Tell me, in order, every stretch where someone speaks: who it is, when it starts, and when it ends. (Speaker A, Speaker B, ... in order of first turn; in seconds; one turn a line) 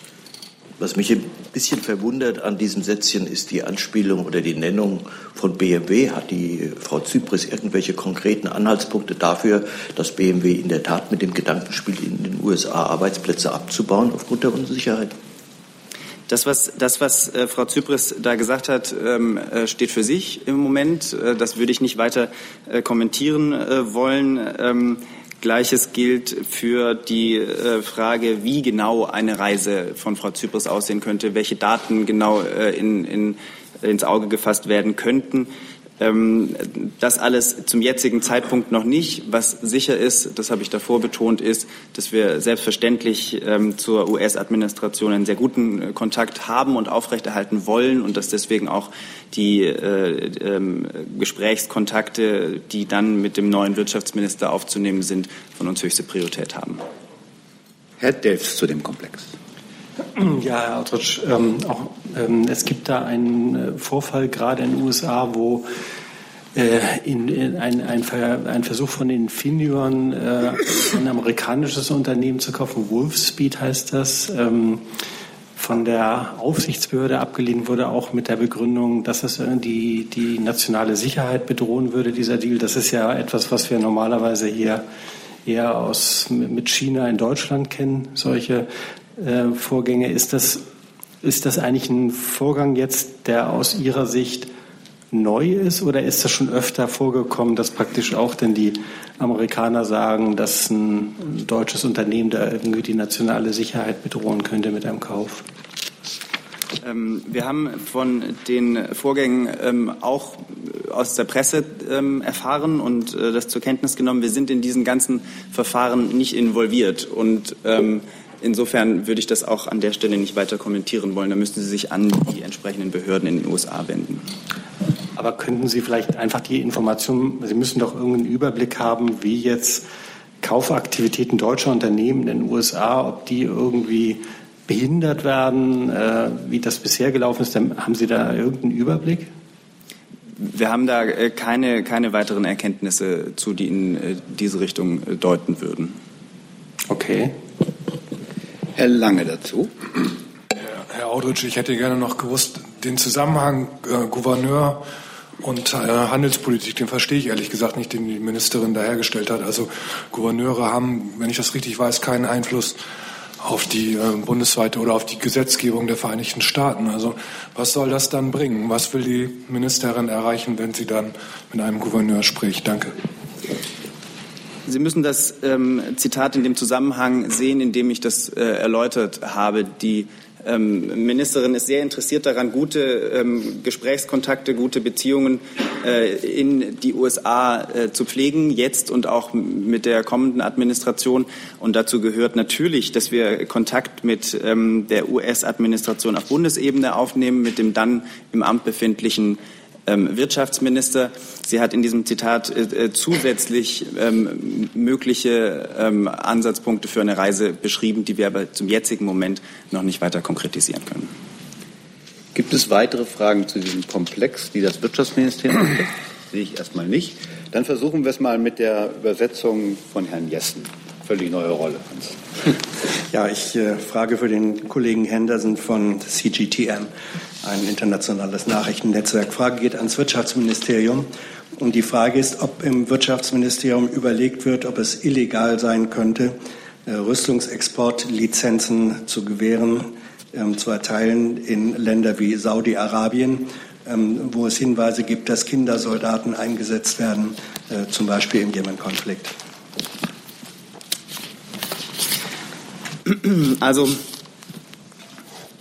Speaker A: 0.8-15.2
Speaker B: 16.3-35.5
Speaker B: 36.0-56.8
Speaker C: 58.0-59.3
Speaker D: 60.2-65.7
Speaker D: 66.5-74.9
Speaker D: 75.6-84.8
Speaker D: 85.5-90.6
Speaker D: 91.2-94.5
Speaker D: 95.1-105.5
Speaker B: 106.8-124.2
Speaker D: 125.2-129.8
Speaker D: 130.4-139.3
Speaker B: 140.4-146.0
Speaker D: 146.9-147.4
Speaker C: 148.8-149.7
Speaker E: 150.7-154.8
Speaker E: 155.4-162.8
Speaker E: 163.4-172.9
Speaker B: 174.7-211.1
Speaker C: 212.3-222.6
Speaker F: 223.1-226.9
Speaker F: 227.4-249.3
Speaker B: 253.1-254.0